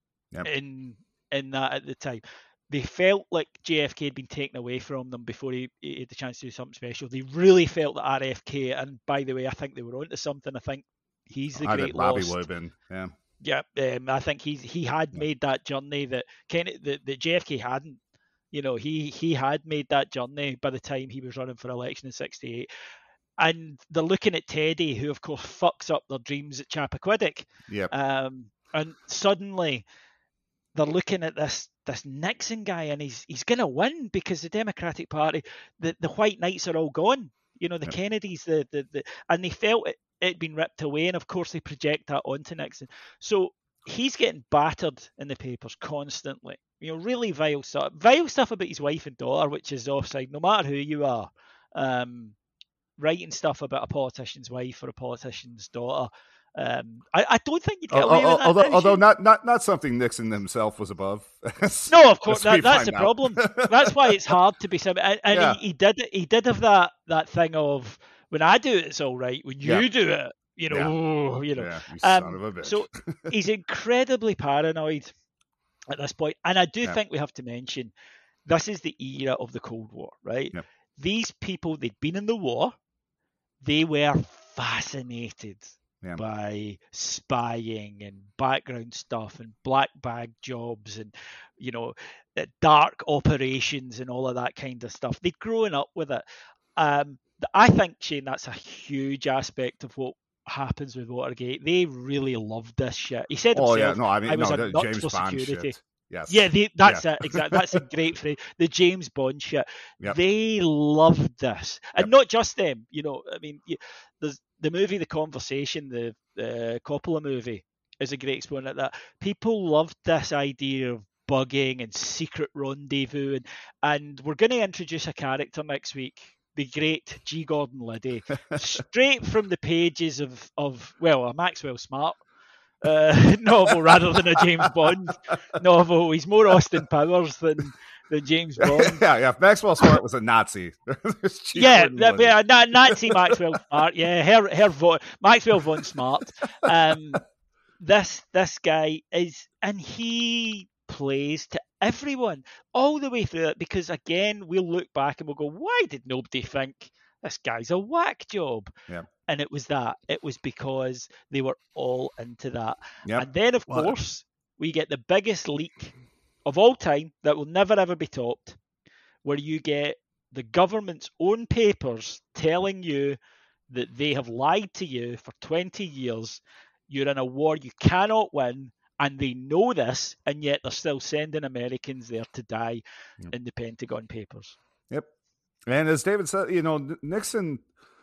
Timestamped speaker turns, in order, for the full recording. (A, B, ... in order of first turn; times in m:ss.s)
0:00.4-0:12.4 A
0:11.5-0:13.1 B
0:13.4-0:18.0 A
0:18.5-0:22.7 A
0:23.4-0:29.8 A
0:27.7-0:27.9 B
0:30.7-0:52.4 A
0:53.0-0:59.0 A
0:57.9-1:04.4 B
1:01.9-1:15.1 A
1:05.3-1:05.6 B
1:11.5-1:13.3 B
1:15.9-1:17.9 A
1:18.4-1:22.7 A
1:23.6-1:36.2 A
1:36.8-1:45.8 A
1:43.5-1:47.8 B
1:46.3-2:12.2 A
2:12.8-2:19.0 A
2:13.7-2:14.7 B
2:18.6-2:23.3 B
2:21.5-2:27.2 A
2:27.8-2:38.7 A
2:39.3-2:48.6 A
2:43.0-2:43.9 B
2:49.2-2:53.2 A
2:53.7-3:04.6 A
3:05.7-3:07.6 B